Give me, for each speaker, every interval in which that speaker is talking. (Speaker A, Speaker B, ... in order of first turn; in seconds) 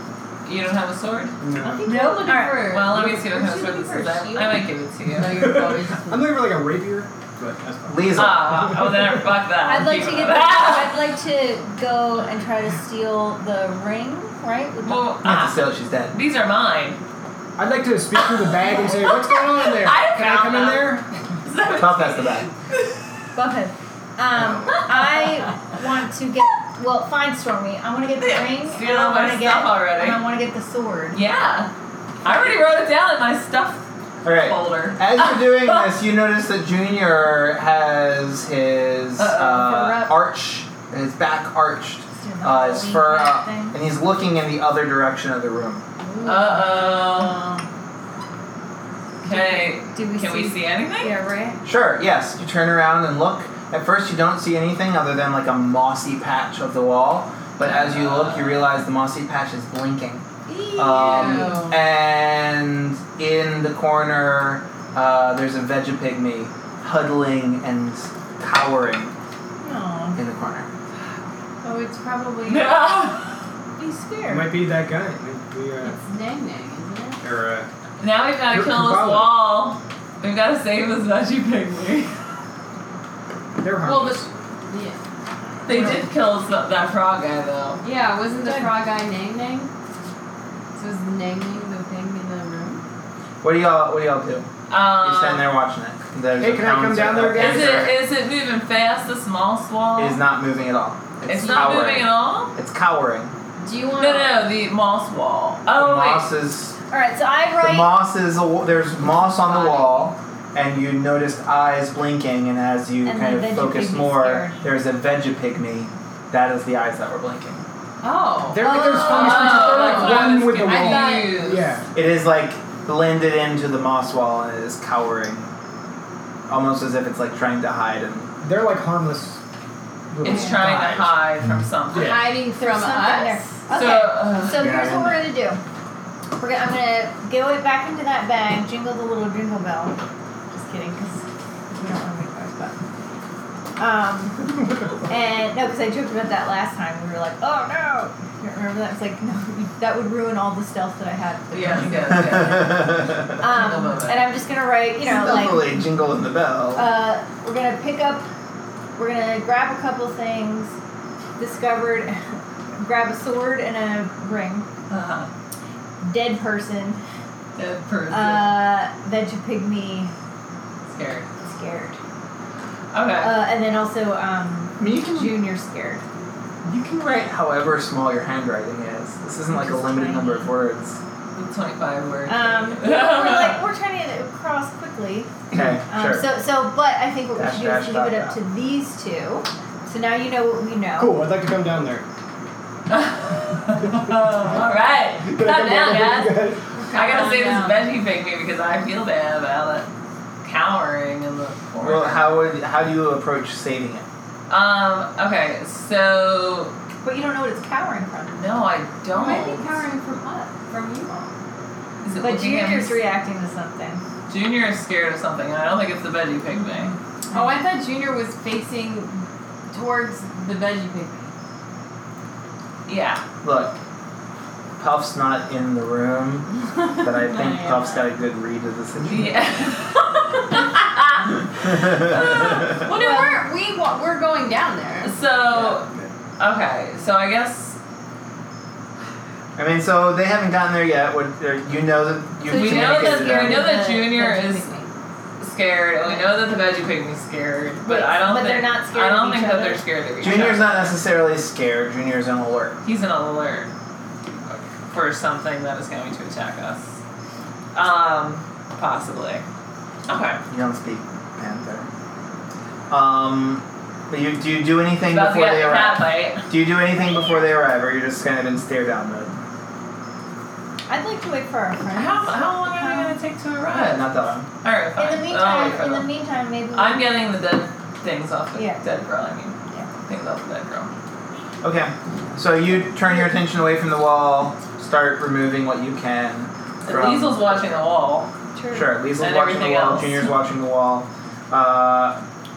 Speaker A: 0.4-1.4, 2.6-5.5, 8.1-10.9, 14.8-17.0, 18.2-22.9, 28.2-30.2, 31.1-31.7, 32.2-35.9, 39.2-40.1, 46.2-47.4, 49.2-51.1, 57.6-58.7, 72.5-73.4, 78.0-82.2, 85.7-87.8, 94.7-95.5, 97.3-100.2, 101.2-102.5, 103.9-106.3, 109.2-110.1, 118.9-121.7, 130.2-132.3, 133.7-134.7, 151.5-154.3, 164.9-165.3, 167.6-168.6, 170.9-171.3, 172.9-173.3, 181.3-183.6, 192.9-199.9, 200.4-202.4, 204.5-206.7, 208.4-209.8, 212.0-213.0, 214.3-216.9, 222.8-223.2, 229.0-233.1, 235.0-235.9, 236.4-237.8, 242.5-244.7, 245.4-250.9, 252.8-253.7, 254.9-257.0, 257.7-259.4, 260.1-260.4, 265.1-266.5, 271.9-276.1, 276.7-279.5, 280.1-280.9, 286.8-288.3, 289.2-290.3
Speaker B: 1.4-1.9, 5.2-9.3, 17.6-21.1, 24.4-24.8, 74.3-76.0, 77.2-77.7, 78.5-79.4, 83.6-84.3, 96.4-97.8, 118.5-121.8, 128.4-129.4, 130.1-131.2, 131.9-132.3, 190.9-192.0, 194.1-194.6, 195.2-196.6
Speaker C: 1.6-6.4, 46.0-47.3, 60.5-61.8, 71.6-72.9, 75.8-77.2, 83.8-85.0, 87.8-89.7, 90.7-92.8, 101.4-101.7, 103.6-104.5, 118.0-121.6, 131.9-133.5, 196.9-197.7, 209.1-211.3, 217.3-221.3, 227.3-228.0, 232.7-235.1
Speaker D: 1.8-2.8, 9.6-15.1, 23.3-31.2, 42.1-43.8, 49.2-51.6, 69.6-70.2, 73.8-74.5, 88.4-88.7, 106.9-107.9, 113.0-114.6, 118.6-119.7, 132.5-135.6, 136.4-139.9, 140.5-142.8, 143.8-152.8, 153.4-155.8, 156.7-158.2, 158.9-160.8, 161.4-164.7, 166.0-167.0, 168.1-170.1, 171.4-172.0, 173.2-176.0, 179.5-180.5, 182.3-185.3, 185.9-191.2, 196.9-197.6, 207.0-208.5, 212.2-214.0, 217.3-217.6, 232.9-233.4, 242.5-244.9, 247.8-249.8, 270.9-273.1, 274.9-277.1, 278.5-278.8, 288.5-288.9
Speaker E: 7.9-8.6, 15.2-16.2, 21.7-22.5, 34.2-45.8, 51.6-69.1, 70.2-70.7, 93.4-94.5, 95.0-98.0, 100.0-103.3, 105.7-106.8, 107.6-117.6, 121.9-125.5, 126.5-128.3, 134.5-135.3, 152.8-153.1, 155.0-156.9, 174.8-175.4, 176.6-181.0, 185.5-186.3, 187.3-188.4, 201.8-204.1, 223.4-223.8, 224.8-229.4, 239.6-243.7, 250.2-252.8, 260.5-261.9, 262.9-269.4, 273.7-274.5, 281.6-287.6, 288.7-292.2